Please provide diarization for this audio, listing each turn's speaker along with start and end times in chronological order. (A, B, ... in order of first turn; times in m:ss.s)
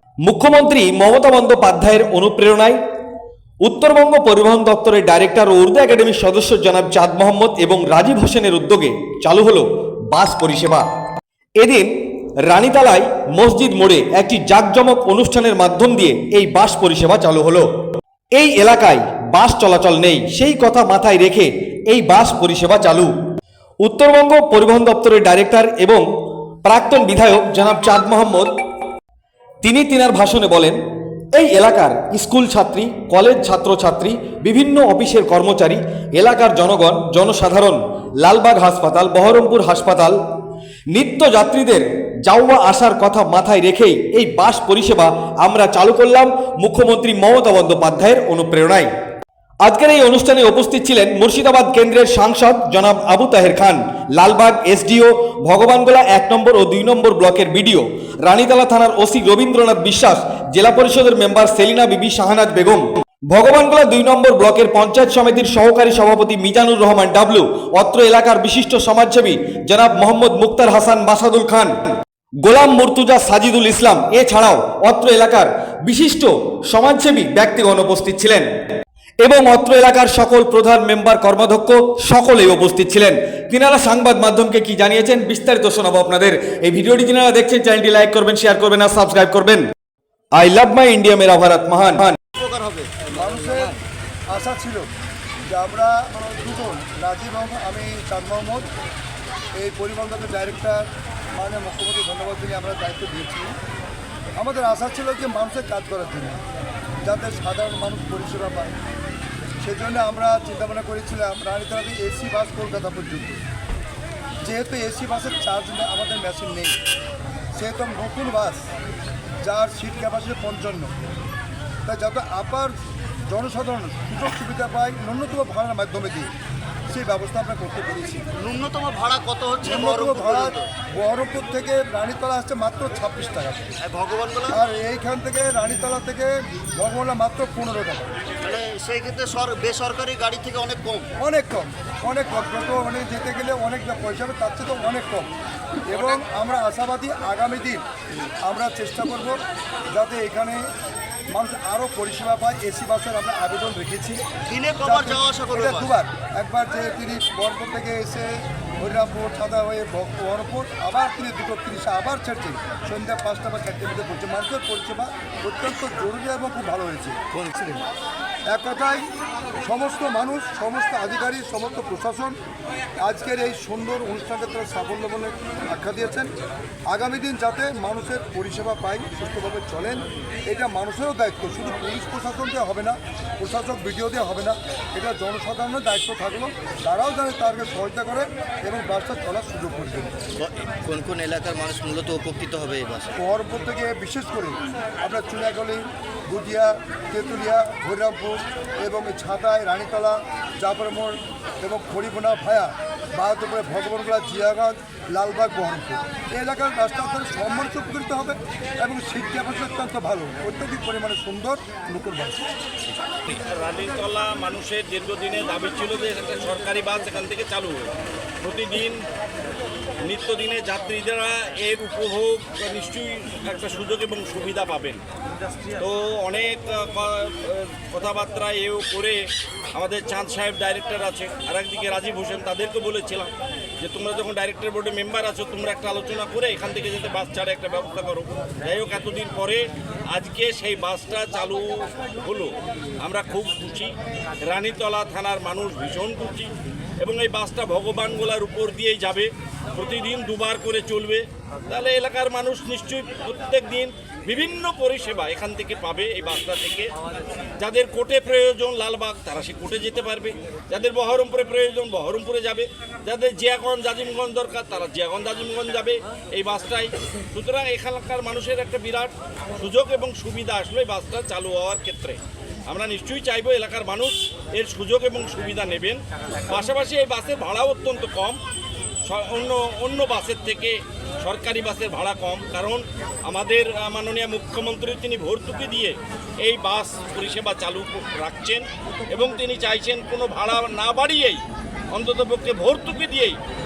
0:00.2-0:02.8 A
0:03.6-0:10.8 A
0:11.6-0:11.9 A
0:12.5-0:17.7 A
0:18.4-0:23.1 A
0:23.8-0:26.0 A
0:26.6-0:28.5 A
0:29.6-0:30.8 A
0:31.3-0:40.2 A
0:40.9-0:48.9 A
0:49.6-1:18.5 A
1:19.2-1:29.6 A
1:30.4-1:32.2 A
1:32.3-1:33.1 B
1:33.1-1:33.7 C
1:34.3-1:34.9 C
1:35.5-1:38.7 C
1:39.6-1:43.5 C
1:44.4-1:46.4 C
1:47.0-1:48.8 C
1:49.6-1:53.4 C
1:54.4-1:56.8 C
1:57.6-1:58.6 C
1:59.4-2:00.9 C
2:01.8-2:02.7 C
2:03.3-2:06.3 C
2:06.9-2:08.3 C
2:08.4-2:10.7 B
2:09.6-2:13.7 C
2:13.8-2:14.6 B
2:14.5-2:18.1 C
2:18.4-2:21.1 B
2:21.2-2:25.3 C
2:25.9-2:27.8 C
2:28.4-2:29.4 C
2:29.9-2:30.6 C
2:31.3-2:34.2 C
2:34.5-2:35.9 B
2:34.8-2:47.2 C
2:47.3-2:47.8 D
2:48.5-2:49.1 C
2:49.6-2:52.4 C
2:53.0-2:56.3 C
2:56.9-3:10.2 C
3:10.4-3:13.1 D
3:13.2-3:32.5 C
3:33.3-3:39.0 E
3:40.0-3:45.0 E
3:45.7-4:03.9 E
4:04.4-4:16.9 E
4:17.6-4:38.4 E
4:39.0-4:53.4 E